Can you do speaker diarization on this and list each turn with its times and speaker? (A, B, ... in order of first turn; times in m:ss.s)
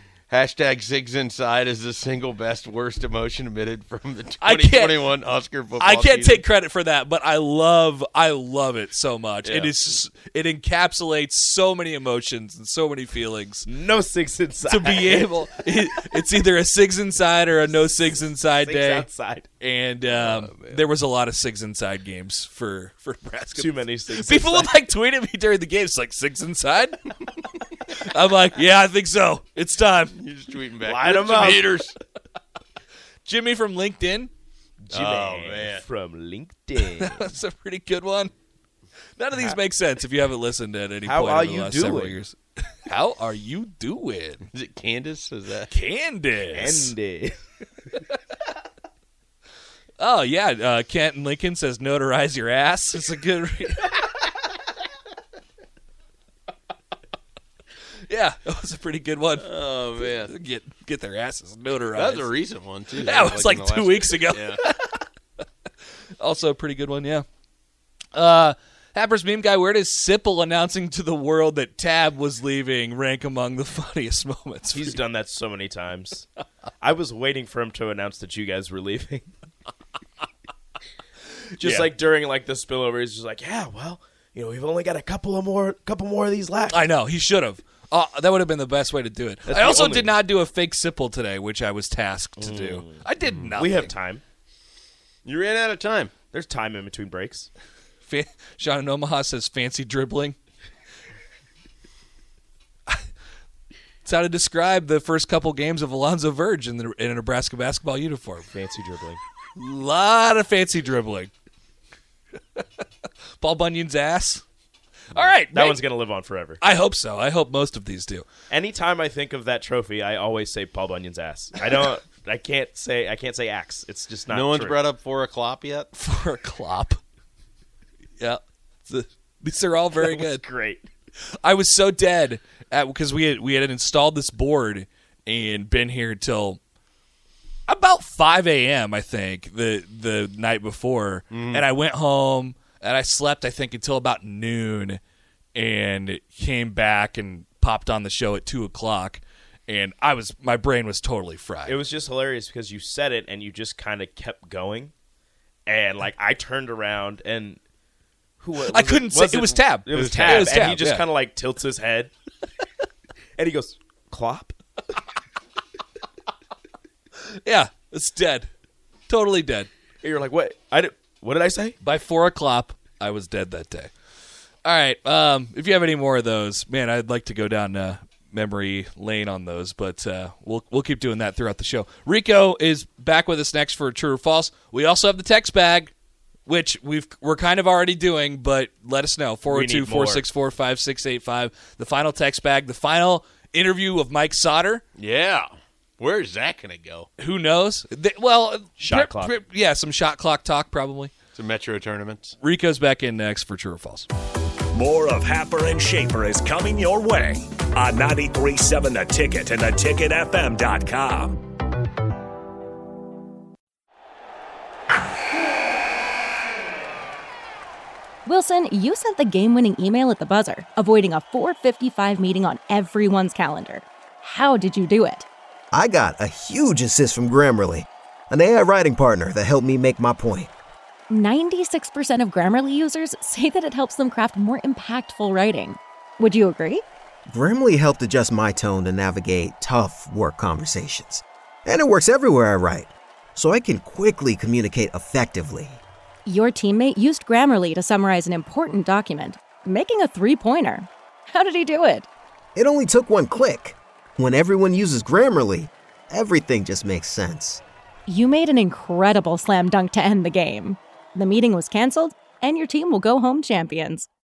0:00.3-0:06.4 A
0:04.4-0:05.1 B
0:05.8-0:13.7 B
0:09.4-0:09.7 A
0:13.7-0:15.3 C
0:14.7-0:19.1 B
0:17.7-0:19.5 C
0:19.6-0:27.0 B
0:20.1-0:20.8 A
0:23.5-0:24.8 C
0:27.9-0:30.2 B
0:30.1-0:32.0 A
0:30.8-0:31.9 C
0:33.2-0:34.3 B
0:34.9-0:37.3 C
0:34.9-0:35.8 A
0:37.0-0:38.3 B
0:39.2-0:44.4 B
0:41.0-0:42.2 C
0:44.5-0:45.7 A
0:45.7-0:46.9 B
0:46.5-0:47.4 C
0:50.0-0:54.0 B
0:58.1-1:02.3 B
0:59.4-1:00.3 A
1:02.0-1:04.6 A
1:03.0-1:05.0 B
1:06.2-1:07.2 B
1:08.1-1:15.0 B
1:14.7-1:16.3 C
1:16.8-1:19.3 C
1:21.6-1:26.8 C
1:21.6-1:21.9 B
1:26.7-1:33.9 B
1:29.5-1:30.2 C
1:32.4-1:34.2 C
1:35.2-1:36.2 A
1:36.3-1:37.5 C
1:38.1-1:40.4 B
1:44.0-1:48.5 B
1:48.5-1:49.2 C
1:49.6-1:51.3 B
1:53.4-1:54.4 B
1:55.1-1:55.8 B
1:55.2-1:56.6 C
1:56.6-1:58.3 B
1:58.5-2:04.8 C
2:04.3-2:05.9 A
2:06.0-2:07.0 B
2:08.2-2:10.4 B
2:10.0-2:10.9 C
2:11.4-2:16.6 B
2:17.7-2:25.0 B
2:21.3-2:21.6 A
2:25.6-2:31.8 B
2:31.7-2:34.9 C
2:35.7-2:37.6 C
2:38.4-2:42.1 C
2:38.7-2:41.0 B
2:39.9-2:40.8 A
2:43.4-2:44.6 C
2:47.3-2:48.5 B
2:49.1-2:49.7 B
2:50.0-2:51.8 C
2:51.8-2:53.9 B
2:54.6-3:05.9 B
3:06.5-3:14.8 B
3:09.5-3:10.3 C
3:15.0-3:15.5 A
3:16.0-3:17.1 A
3:17.2-3:21.1 B
3:18.8-3:19.4 C
3:21.4-3:22.4 A
3:22.4-3:24.1 B
3:24.7-3:31.4 D
3:38.3-3:45.3 E
3:45.7-3:50.5 F
3:51.1-3:56.8 E
3:57.3-4:05.8 F
4:06.3-4:12.1 E
4:12.6-4:17.6 F
4:18.1-4:24.1 E